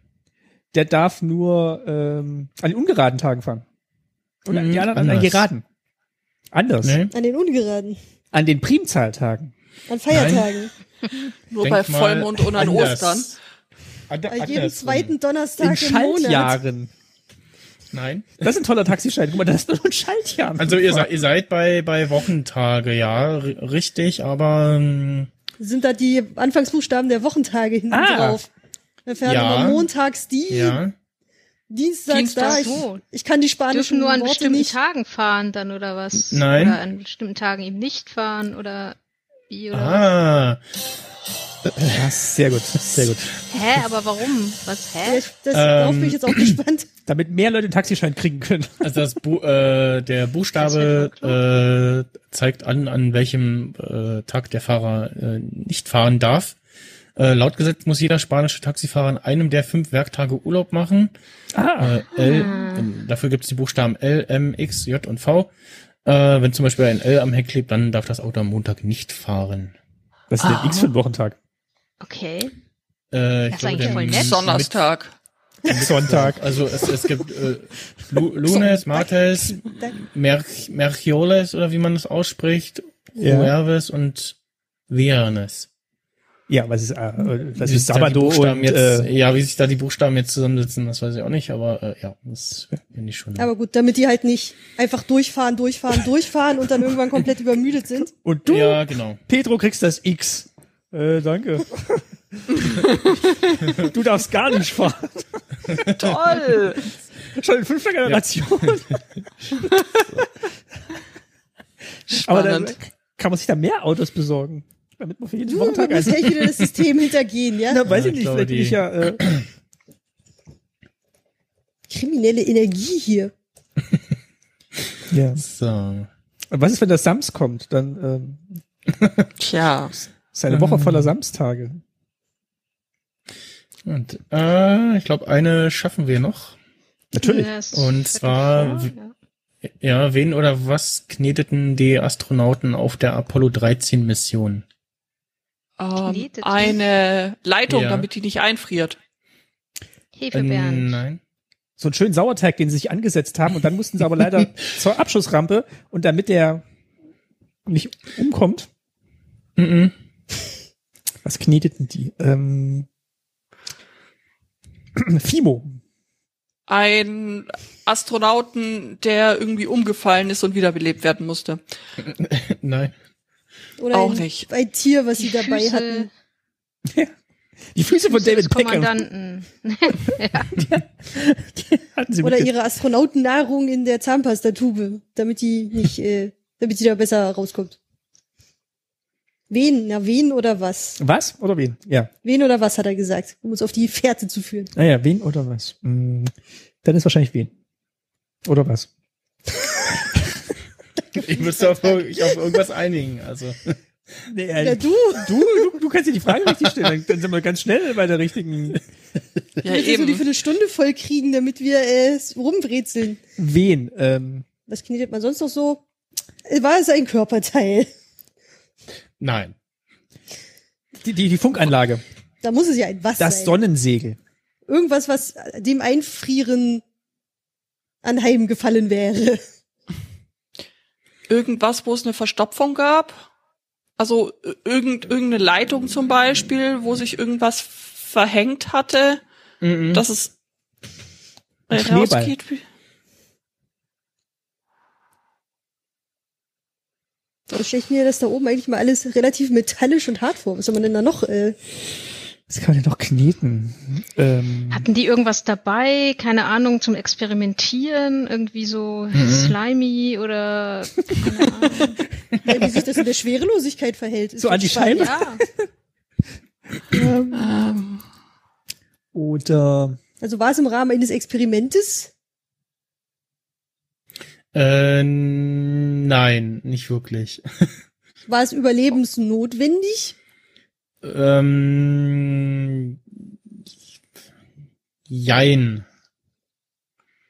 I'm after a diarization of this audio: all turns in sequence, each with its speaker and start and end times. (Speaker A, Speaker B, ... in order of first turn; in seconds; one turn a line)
Speaker A: 0.7-3.6
Speaker A: 4.5-5.6
Speaker B: 4.5-5.5
Speaker A: 6.5-7.0
Speaker B: 6.8-7.1
Speaker C: 7.1-8.0
Speaker A: 8.3-9.5
Speaker C: 9.9-10.7
Speaker B: 10.1-10.5
Speaker D: 11.5-13.4
Speaker B: 11.6-13.4
Speaker B: 14.1-15.2
Speaker C: 14.3-16.6
Speaker A: 15.6-16.9
Speaker B: 17.9-18.3
Speaker A: 18.4-21.1
Speaker B: 20.6-25.3
Speaker C: 25.6-28.5
Speaker A: 27.9-28.4
Speaker C: 29.1-30.8
Speaker B: 29.2-29.9
Speaker B: 30.5-30.9
Speaker C: 31.7-34.8
Speaker D: 32.1-32.9
Speaker E: 32.4-33.0
Speaker E: 33.7-39.0
Speaker B: 36.1-36.8
Speaker E: 39.5-40.1
Speaker B: 39.7-40.6
Speaker B: 41.7-42.0
Speaker A: 41.9-43.3
Speaker E: 43.5-45.3
Speaker C: 45.0-46.9
Speaker B: 45.5-46.6
Speaker A: 47.1-48.9
Speaker B: 48.8-56.6
Speaker E: 50.6-51.4
Speaker B: 57.2-61.1
Speaker A: 61.5-62.0
Speaker B: 61.8-65.5
Speaker E: 62.1-62.9
Speaker B: 66.0-69.8
Speaker A: 70.3-71.4
Speaker E: 72.0-72.5
Speaker B: 73.1-74.8
Speaker E: 73.5-74.4
Speaker D: 73.7-75.1
Speaker B: 75.7-84.4
Speaker A: 75.7-76.4
Speaker C: 78.5-80.0
Speaker A: 83.2-83.5
Speaker B: 84.9-85.7
Speaker A: 86.5-89.1
Speaker B: 87.2-93.5
Speaker C: 93.4-98.1
Speaker A: 98.2-105.4
Speaker B: 98.5-99.2
Speaker B: 105.7-106.1
Speaker D: 105.9-106.8
Speaker A: 107.3-109.0
Speaker B: 108.1-109.0
Speaker D: 112.1-112.8
Speaker A: 112.1-116.8
Speaker C: 115.5-117.9
Speaker A: 117.7-119.3
Speaker B: 117.8-119.5
Speaker C: 121.9-123.3
Speaker A: 125.1-125.4
Speaker B: 125.4-126.1
Speaker A: 126.5-128.6
Speaker B: 128.9-129.3
Speaker D: 129.4-130.0
Speaker A: 130.3-131.8
Speaker B: 130.5-131.1
Speaker B: 133.8-136.6
Speaker A: 137.1-137.5
Speaker E: 137.2-139.1
Speaker B: 137.7-138.9
Speaker B: 139.6-144.7
Speaker D: 145.8-149.0
Speaker E: 146.0-146.8
Speaker B: 147.7-148.1
Speaker E: 150.2-151.0
Speaker B: 150.3-151.2
Speaker A: 151.8-156.6
Speaker A: 157.7-158.7
Speaker B: 159.6-159.9
Speaker A: 161.2-162.9
Speaker A: 164.9-165.8
Speaker D: 166.7-171.6
Speaker B: 172.0-172.9
Speaker C: 173.8-176.1
Speaker D: 173.9-174.5
Speaker E: 175.2-176.1
Speaker A: 176.9-177.1
Speaker A: 177.7-179.1
Speaker E: 178.1-180.6
Speaker A: 180.4-182.5
Speaker C: 182.2-187.8
Speaker C: 189.5-191.0
Speaker A: 191.0-192.1
Speaker C: 192.2-194.7
Speaker A: 194.8-197.5
Speaker A: 198.5-198.9
Speaker B: 201.2-203.8
Speaker C: 201.2-202.4
Speaker A: 204.3-208.8
Speaker C: 204.6-205.8
Speaker D: 209.6-210.3
Speaker C: 209.7-213.2
Speaker A: 213.4-214.4
Speaker C: 214.7-215.8
Speaker C: 216.4-217.9
Speaker B: 219.2-219.6
Speaker A: 221.0-222.0
Speaker C: 222.4-223.6
Speaker A: 223.2-224.2
Speaker C: 224.7-226.8
Speaker C: 228.0-229.4
Speaker D: 231.3-233.2
Speaker D: 234.0-239.2
Speaker B: 239.6-240.1
Speaker D: 239.9-240.3
Speaker D: 241.7-242.6
Speaker A: 241.7-242.3
Speaker C: 247.5-251.6
Speaker A: 252.5-254.9
Speaker E: 254.7-262.0
Speaker B: 259.1-259.6
Speaker C: 262.4-265.2
Speaker A: 264.4-265.7
Speaker E: 265.0-265.4
Speaker A: 266.8-267.5
Speaker D: 267.3-268.0
Speaker A: 269.1-270.0
Speaker C: 270.2-272.1
Speaker B: 274.5-277.7
Speaker C: 278.3-280.1
Speaker B: 281.0-283.0
Speaker B: 285.1-285.9